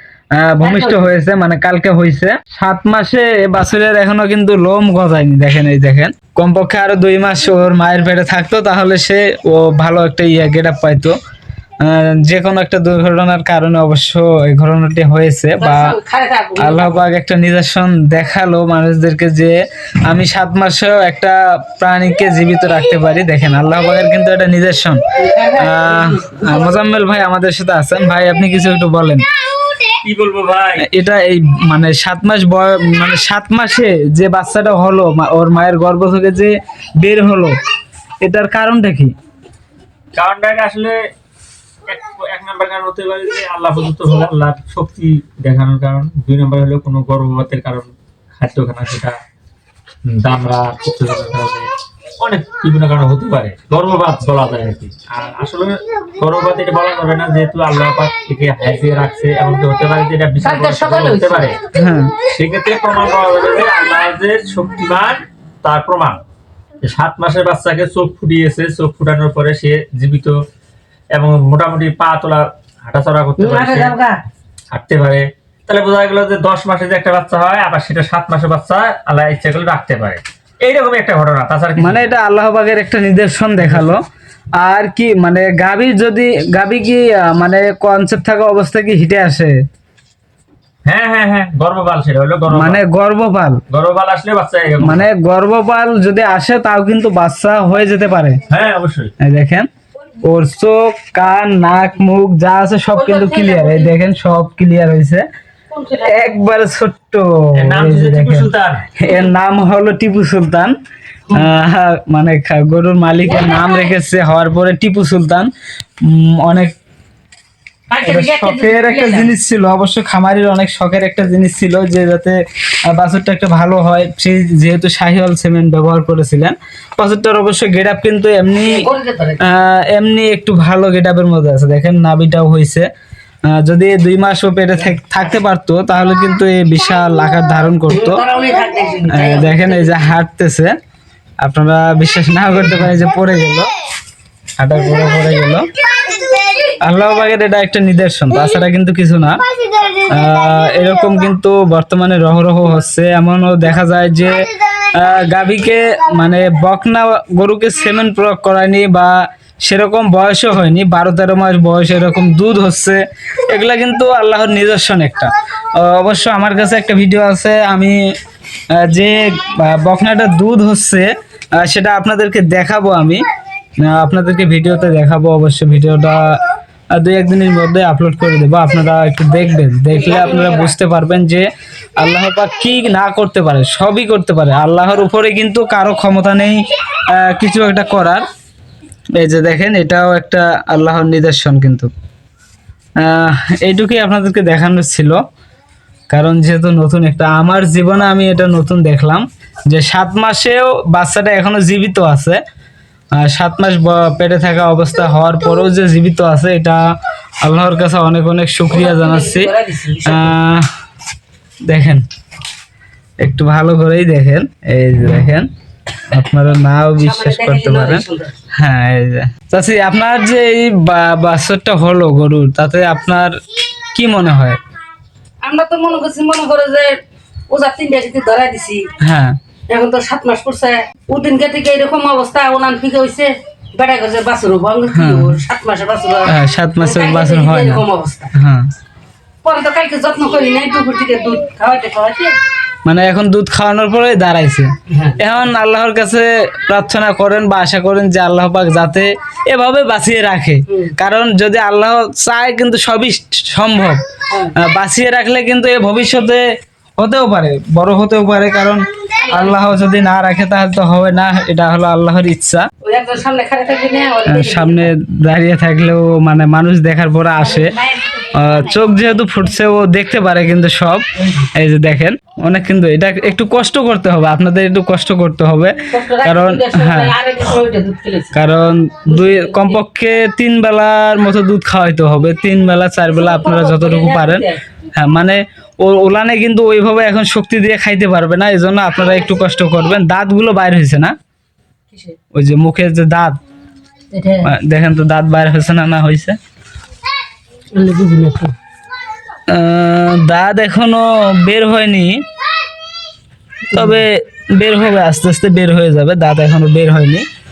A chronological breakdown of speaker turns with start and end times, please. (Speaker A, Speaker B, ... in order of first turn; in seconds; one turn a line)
Speaker A: 0.4-11.2
Speaker B: 0.6-1.0
Speaker A: 11.8-15.9
Speaker B: 15.6-17.0
Speaker A: 16.6-25.0
Speaker B: 25.2-26.8
Speaker A: 25.6-29.3
Speaker C: 30.0-30.9
Speaker A: 30.8-37.6
Speaker A: 38.2-39.1
Speaker C: 40.1-41.1
Speaker C: 41.9-49.1
Speaker C: 50.0-61.6
Speaker B: 60.4-61.6
Speaker A: 61.7-62.1
Speaker C: 62.2-66.2
Speaker C: 66.8-70.4
Speaker C: 71.1-74.0
Speaker B: 73.4-74.2
Speaker C: 74.7-82.1
Speaker A: 81.8-84.0
Speaker C: 83.6-84.0
Speaker A: 84.6-89.6
Speaker C: 90.8-92.8
Speaker A: 92.5-93.6
Speaker C: 93.7-95.1
Speaker A: 94.8-98.4
Speaker C: 98.5-99.1
Speaker A: 99.2-99.7
Speaker A: 100.2-105.2
Speaker B: 102.9-103.9
Speaker B: 105.7-106.3
Speaker A: 106.0-110.7
Speaker C: 107.5-108.9
Speaker A: 111.3-115.5
Speaker B: 113.2-113.9
Speaker A: 116.0-116.7
Speaker B: 117.9-119.3
Speaker A: 118.0-122.4
Speaker A: 122.9-128.9
Speaker B: 128.6-129.4
Speaker A: 129.4-132.9
Speaker A: 133.5-138.2
Speaker B: 137.9-140.1
Speaker A: 139.1-140.7
Speaker A: 141.4-143.7
Speaker A: 144.6-146.1
Speaker A: 146.8-168.0
Speaker A: 168.7-173.2
Speaker A: 173.8-176.4
Speaker A: 176.9-188.2
Speaker B: 179.9-180.7
Speaker A: 189.2-191.9
Speaker A: 193.0-195.2
Speaker A: 196.1-202.4
Speaker A: 203.2-206.8
Speaker A: 207.4-209.5
Speaker B: 208.7-210.3
Speaker A: 210.0-210.7
Speaker A: 211.7-212.0
Speaker A: 213.2-215.5
Speaker A: 216.1-224.6
Speaker B: 217.0-218.4
Speaker B: 225.4-227.0
Speaker B: 227.5-228.9
Speaker A: 229.0-229.4
Speaker B: 229.7-238.3
Speaker A: 234.9-235.4
Speaker A: 236.3-238.7
Speaker B: 239.4-242.3
Speaker A: 242.8-254.0
Speaker B: 244.9-245.2
Speaker B: 254.3-254.5
Speaker A: 254.5-256.4
Speaker A: 257.0-262.7
Speaker B: 259.3-259.7
Speaker B: 262.8-264.9
Speaker A: 264.2-277.1
Speaker B: 275.9-278.3
Speaker A: 278.3-291.1
Speaker B: 279.1-279.8
Speaker B: 283.1-284.6
Speaker A: 292.3-293.4
Speaker B: 294.1-294.5
Speaker A: 294.4-296.4
Speaker B: 297.7-298.5
Speaker A: 299.5-302.2
Speaker B: 303.7-304.0
Speaker A: 303.7-307.3